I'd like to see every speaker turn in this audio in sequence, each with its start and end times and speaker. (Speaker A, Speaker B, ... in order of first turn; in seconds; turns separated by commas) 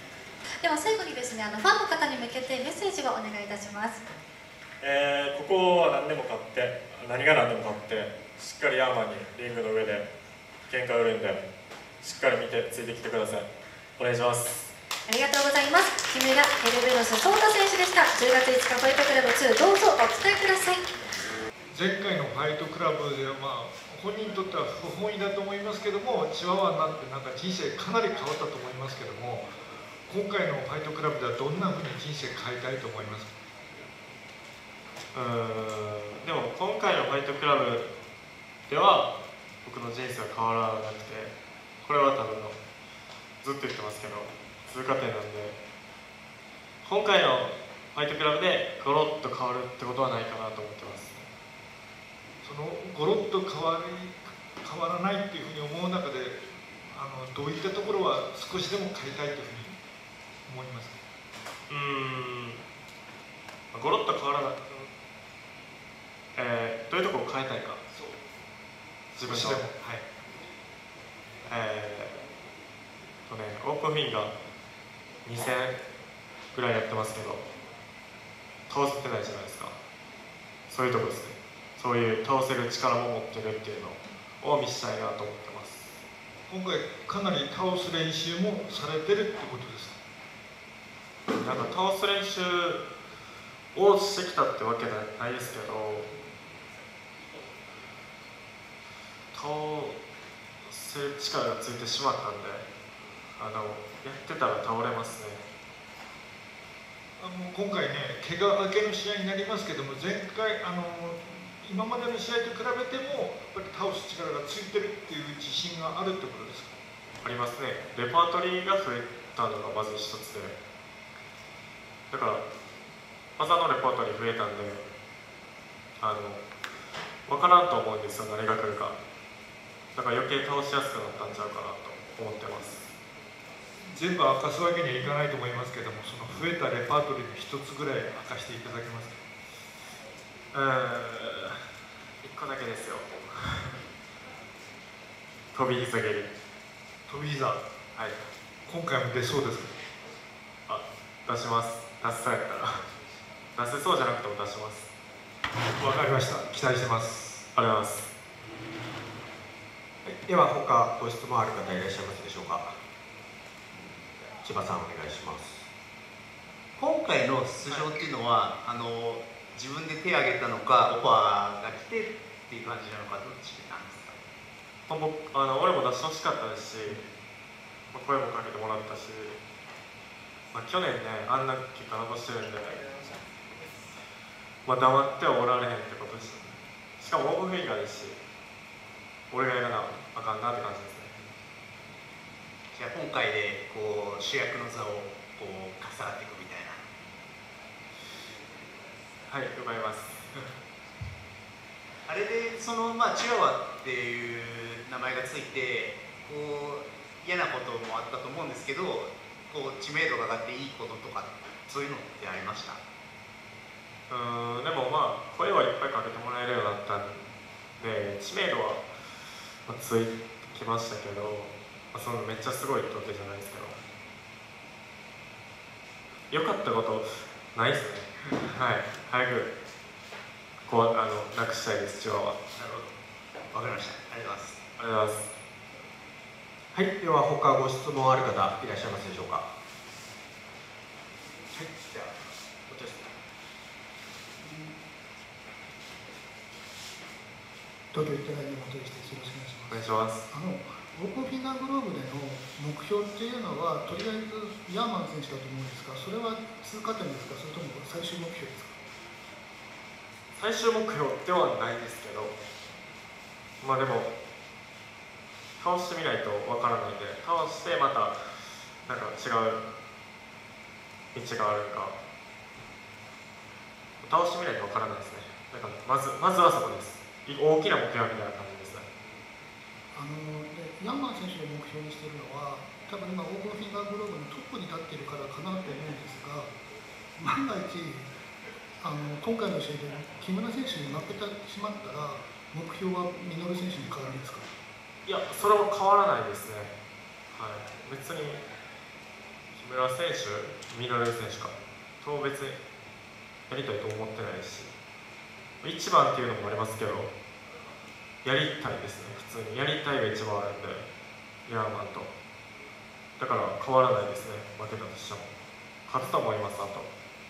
Speaker A: 0.6-4.0, Speaker B: 4.8-10.1, Speaker B: 10.7-11.4, Speaker B: 12.0-13.5, Speaker B: 14.0-14.7, Speaker A: 15.1-20.9, Speaker C: 21.7-29.5, Speaker C: 30.1-33.3, Speaker B: 35.1-37.9, Speaker B: 38.7-42.6, Speaker B: 43.4-45.6, Speaker B: 46.8-51.3, Speaker C: 52.4-59.8, Speaker C: 60.5-61.0, Speaker B: 61.7-62.6, Speaker B: 63.7-64.7, Speaker B: 66.3-67.8, Speaker B: 69.1-69.7, Speaker C: 69.2-70.0, Speaker B: 71.5-72.2, Speaker B: 73.3-74.3, Speaker B: 75.2-75.8, Speaker B: 76.5-77.5, Speaker B: 78.7-79.7, Speaker B: 80.7-86.0, Speaker C: 86.5-90.0, Speaker B: 91.4-92.8, Speaker B: 93.7-96.1, Speaker B: 99.3-100.0, Speaker B: 100.7-102.7, Speaker B: 103.3-105.4, Speaker C: 107.2-116.7, Speaker B: 117.2-120.6, Speaker B: 122.1-122.5, Speaker B: 123.4-124.8, Speaker B: 126.0-126.4, Speaker B: 127.3-129.0, Speaker B: 129.9-132.8, Speaker C: 133.9-139.2, Speaker B: 140.5-141.6, Speaker B: 142.2-143.8, Speaker B: 145.5-146.3, Speaker C: 147.1-147.6, Speaker C: 148.7-149.7, Speaker B: 150.7-152.8, Speaker B: 153.6-154.8, Speaker C: 155.8-157.4, Speaker B: 157.5-158.1, Speaker D: 160.0-162.8, Speaker D: 164.2-165.7, Speaker E: 166.8-174.2, Speaker B: 174.9-177.0, Speaker B: 177.9-179.4, Speaker B: 180.5-182.8, Speaker B: 184.6-188.2, Speaker B: 189.3-191.1, Speaker E: 192.7-196.8, Speaker B: 199.3-200.4, Speaker E: 202.1-212.8, Speaker B: 214.1-217.2, Speaker B: 217.8-218.8, Speaker B: 219.7-223.8, Speaker B: 226.3-229.5, Speaker B: 230.7-232.4, Speaker E: 232.5-232.9, Speaker E: 233.5-234.6, Speaker B: 234.8-235.3, Speaker D: 236.7-239.5, Speaker E: 241.5-242.1, Speaker F: 247.9-258.7, Speaker B: 249.7-250.2, Speaker B: 260.3-262.4, Speaker B: 263.6-264.1, Speaker B: 265.6-268.2, Speaker B: 268.9-269.6, Speaker B: 271.1-271.9, Speaker B: 274.0-278.9, Speaker F: 279.9-286.5, Speaker F: 287.2-288.1, Speaker F: 288.8-294.5, Speaker B: 295.1-296.7, Speaker B: 297.3-298.4, Speaker B: 299.5-302.6, Speaker B: 303.5-304.7, Speaker B: 305.6-307.1, Speaker B: 308.2-310.9, Speaker B: 311.4-312.1, Speaker B: 313.2-315.3, Speaker B: 315.9-316.9